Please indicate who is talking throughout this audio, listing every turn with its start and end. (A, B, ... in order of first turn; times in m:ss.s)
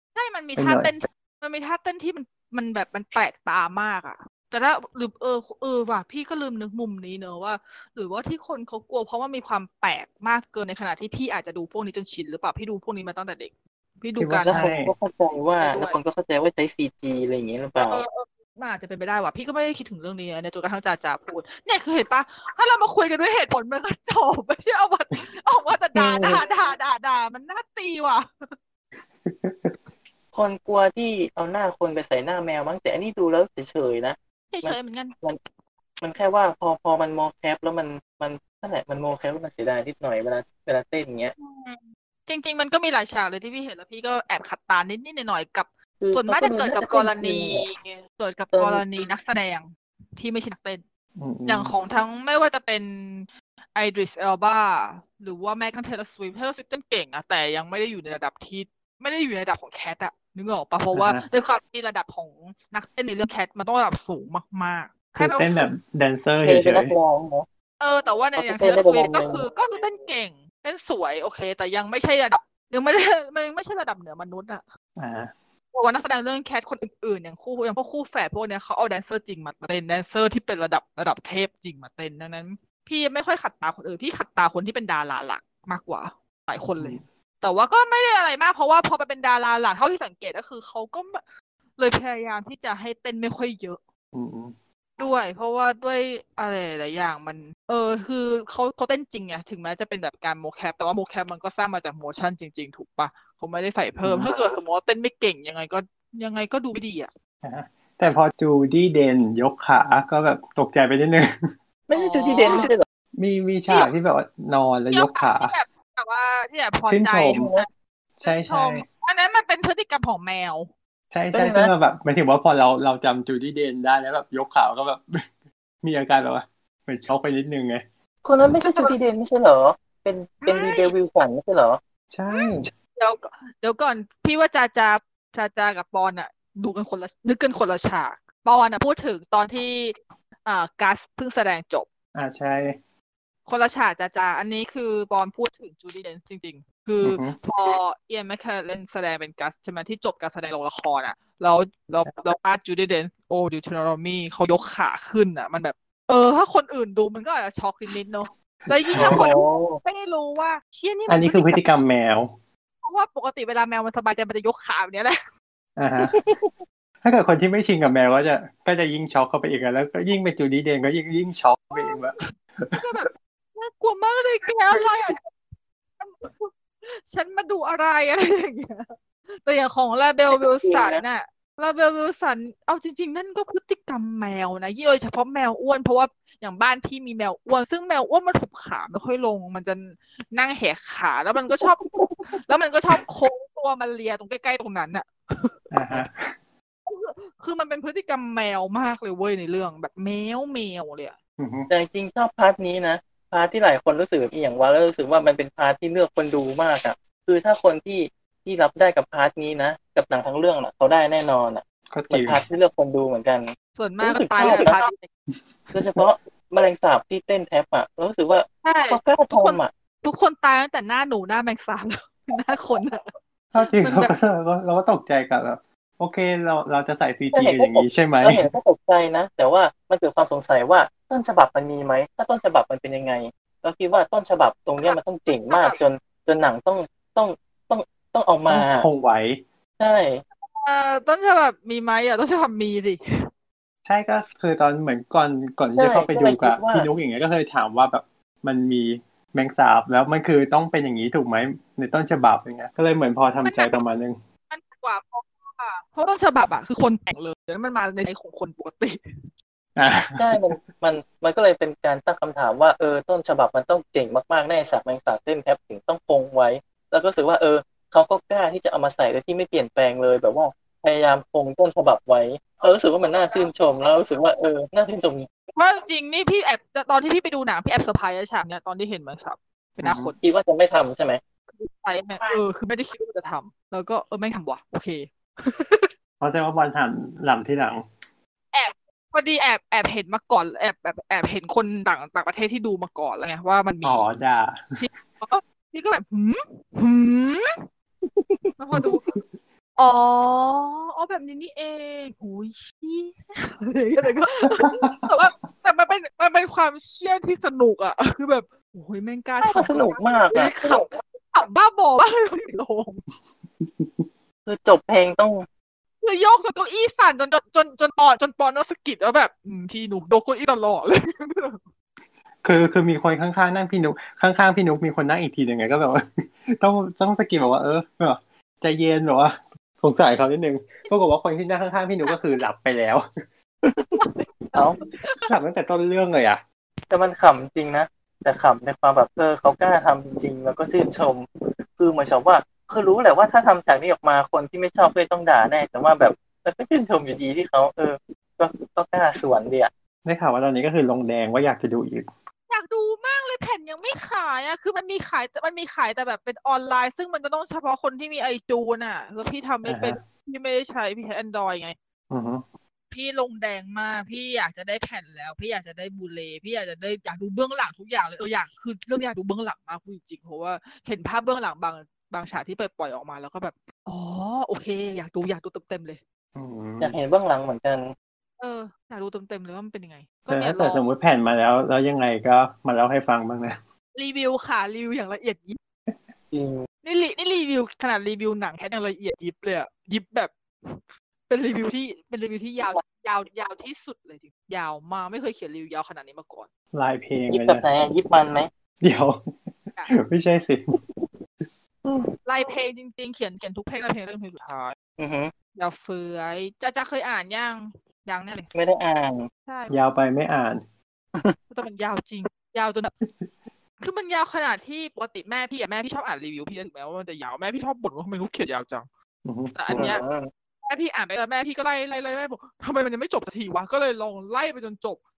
0:00.2-0:14.6 A
0:00.6-0:00.9 B
0:14.2-0:14.9 B
0:14.4-0:18.0 C
0:15.6-0:16.0 A
0:17.8-0:28.3 A
0:29.2-0:29.8 B
0:30.3-0:35.4 C
0:34.5-0:35.2 A
0:36.0-0:41.3 C
0:41.4-0:50.8 A
0:46.0-0:47.7 C
0:48.5-0:48.8 C
0:51.2-0:51.7 B
0:51.5-1:05.7 A
1:00.9-1:01.2 B
1:05.2-1:06.9 B
1:06.4-1:07.5 C
1:07.8-1:14.6 A
1:08.4-1:09.4 C
1:15.0-1:15.3 B
1:15.7-1:31.2 A
1:31.8-1:33.8 A
1:34.1-1:34.6 B
1:35.0-1:47.1 A
1:44.0-1:44.3 B
1:47.4-1:51.5 B
1:51.9-1:52.8 C
1:51.9-1:52.7 A
1:53.2-1:55.6 B
1:54.9-1:57.7 A
1:56.9-1:57.5 B
1:57.3-1:57.7 C
1:58.2-1:58.9 B
1:58.2-2:00.7 A
2:01.1-2:05.2 B
2:01.3-2:01.7 C
2:05.8-2:07.8 B
2:08.2-2:11.8 C
2:08.6-2:09.0 A
2:10.4-2:10.9 A
2:12.1-2:12.7 B
2:12.3-2:21.9 A
2:22.2-2:22.8 B
2:23.5-2:41.6 A
2:27.0-2:27.4 B
2:38.7-2:39.3 B
2:39.0-2:39.8 C
2:41.1-2:42.3 B
2:42.8-2:45.2 A
2:45.8-2:46.2 B
2:46.0-2:46.6 C
2:47.0-2:52.8 B
2:51.7-2:55.2 A
2:56.0-3:15.7 A
3:00.4-3:01.0 C
3:11.8-3:12.3 C
3:15.7-3:16.4 B
3:16.9-3:21.2 A
3:21.4-3:21.7 B
3:21.7-3:33.5 C
3:31.9-3:32.4 B
3:33.8-3:35.1 A
3:34.0-3:34.8 C
3:34.4-3:34.7 B
3:35.7-3:39.7 C
3:38.6-3:44.1 A
3:43.5-3:48.5 B
3:47.3-3:58.9 C
3:54.8-3:55.8 A
3:58.5-3:59.4 B
3:59.8-4:00.2 C
4:00.5-4:03.0 A
4:03.8-4:14.2 B
4:05.8-4:06.9 C
4:13.4-4:13.8 A
4:14.5-4:19.0 A
4:19.8-4:20.6 B
4:20.2-4:35.3 C
4:35.6-4:40.2 A
4:39.8-4:40.1 B
4:40.2-4:41.2 C
4:41.5-4:45.9 A
4:46.2-4:47.9 B
4:48.5-4:54.1 A
4:53.8-4:54.9 B
4:54.8-4:57.7 A
4:58.0-4:58.5 C
4:58.6-4:59.0 A
4:58.7-4:59.3 B
4:59.8-5:13.0 A
5:04.6-5:05.1 B
5:09.4-5:10.8 C
5:13.6-5:14.1 B
5:14.5-5:15.5 C
5:16.0-5:21.6 A
5:22.4-5:33.0 B
5:33.6-5:34.8 C
5:34.0-5:35.3 A
5:35.3-5:36.4 B
5:36.9-5:49.7 C
5:50.0-5:52.1 B
5:52.5-6:01.8 A
5:59.7-6:00.0 B
6:02.1-6:02.4 B
6:02.9-6:16.0 A
6:16.4-6:17.0 B
6:16.8-6:17.9 C
6:18.4-6:20.8 A
6:20.3-6:23.6 B
6:24.0-6:25.6 A
6:26.3-6:26.6 C
6:26.8-6:36.5 A
6:36.7-6:37.7 B
6:37.3-6:38.5 C
6:38.8-6:40.8 B
6:41.8-6:42.1 C
6:42.3-6:44.8 A
6:45.0-6:45.3 C
6:45.6-6:48.5 A
6:48.5-6:49.3 C
6:49.5-6:49.8 A
6:49.7-6:50.6 B
6:51.5-6:52.9 A
6:53.8-6:58.9 A
6:59.2-7:00.0 B
6:59.6-7:00.0 A
6:59.7-7:00.3 C
7:00.7-7:05.0 A